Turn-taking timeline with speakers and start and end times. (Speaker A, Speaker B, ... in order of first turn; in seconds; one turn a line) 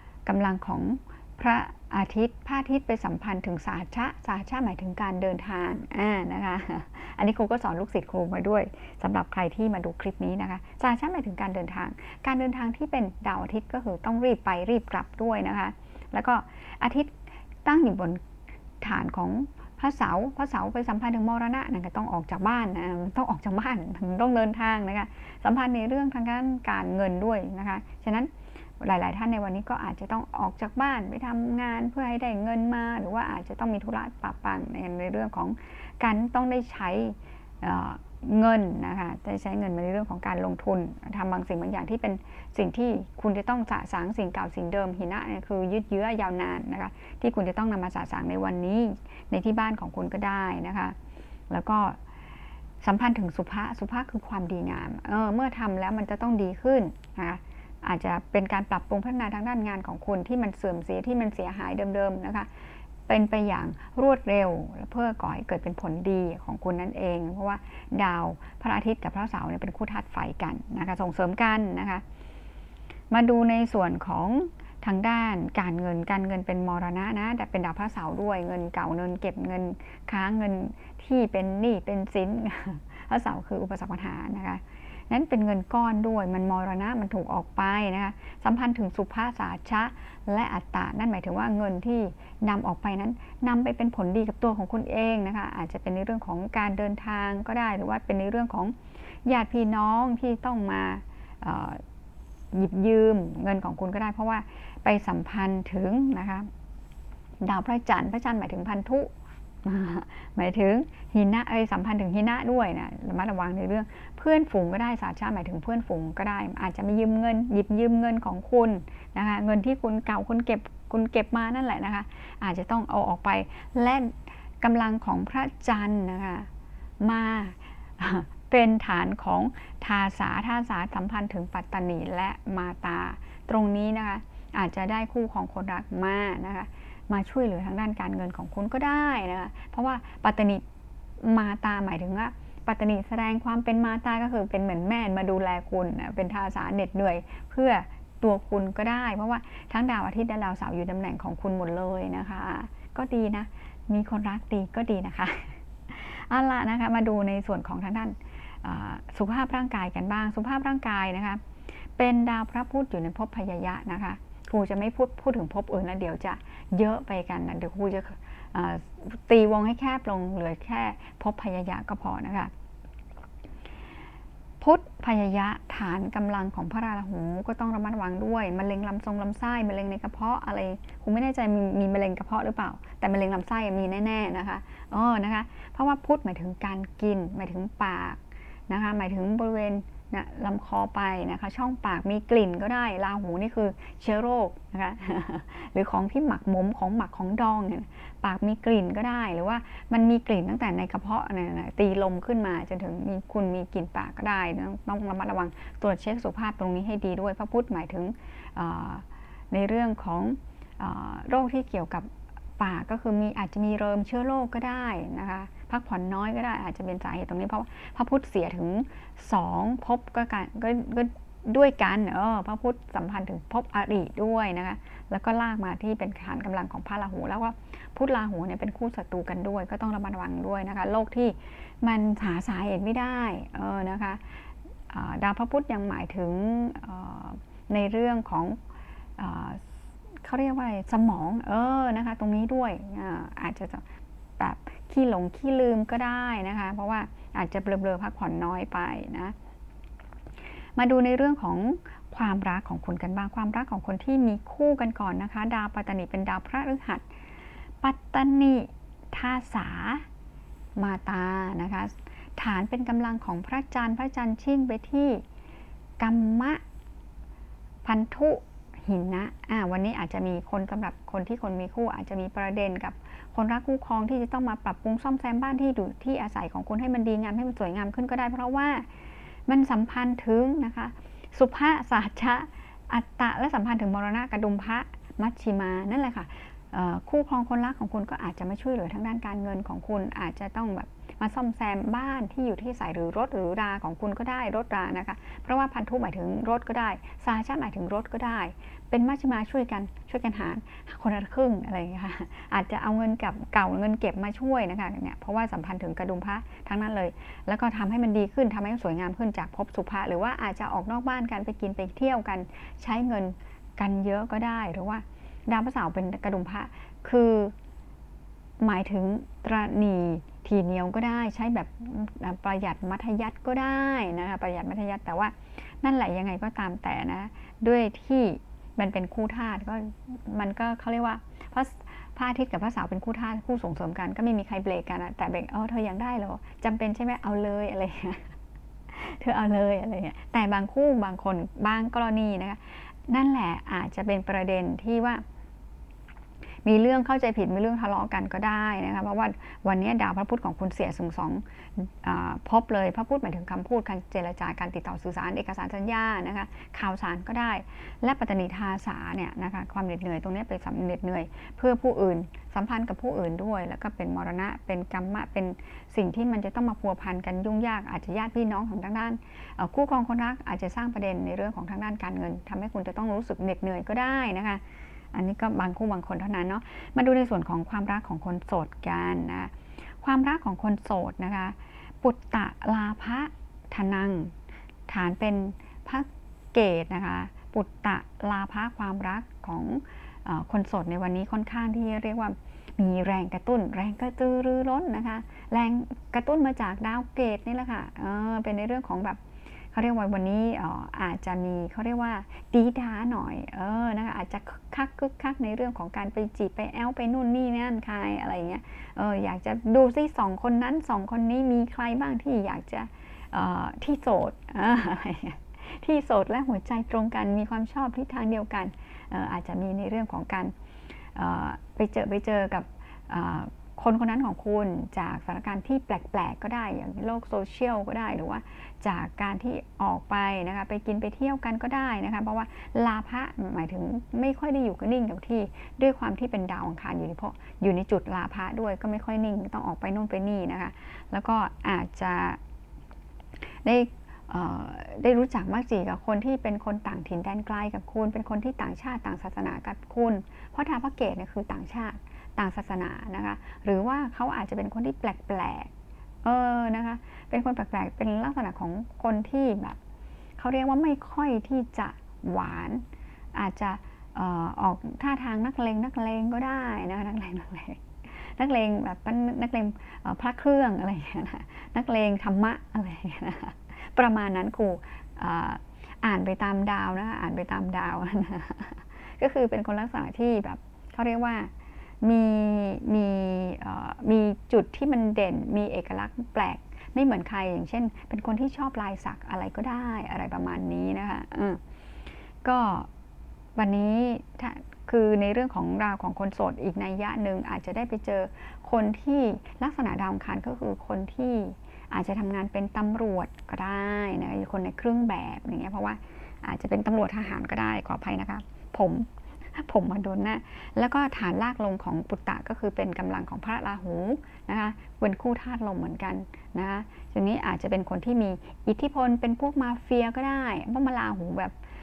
Speaker A: 0.3-18.2
Speaker A: 18.8-51.0
Speaker A: 51.5-52.0
Speaker A: 52.8-62.5
Speaker A: 63.1-72.0
Speaker A: 73.1-101.8
Speaker A: 102.5-106.5
Speaker A: 107.4-109.1
Speaker A: 109.6-126.5
Speaker A: 127.0-140.6
Speaker A: 141.2-161.4
Speaker A: 162.0-172.5
Speaker A: 174.6-238.6
Speaker A: 239.2-243.8
Speaker A: 244.4-249.3
Speaker A: 250.8-257.1
Speaker A: 257.8-260.1
Speaker A: 260.8-265.2
Speaker A: 266.0-266.6
Speaker A: 267.9-278.9
Speaker A: 279.5-317.5
Speaker A: 318.6-338.4
Speaker A: 338.9-345.2
Speaker A: 346.6-384.3
Speaker A: 384.9-399.2
Speaker A: 399.7-420.5
Speaker A: 421.1-442.4
Speaker A: 443.6-455.7
Speaker A: 456.2-459.8
Speaker A: 460.4-481.5
Speaker A: 482.0-491.6
Speaker A: 492.4-492.9
Speaker A: 493.6-521.5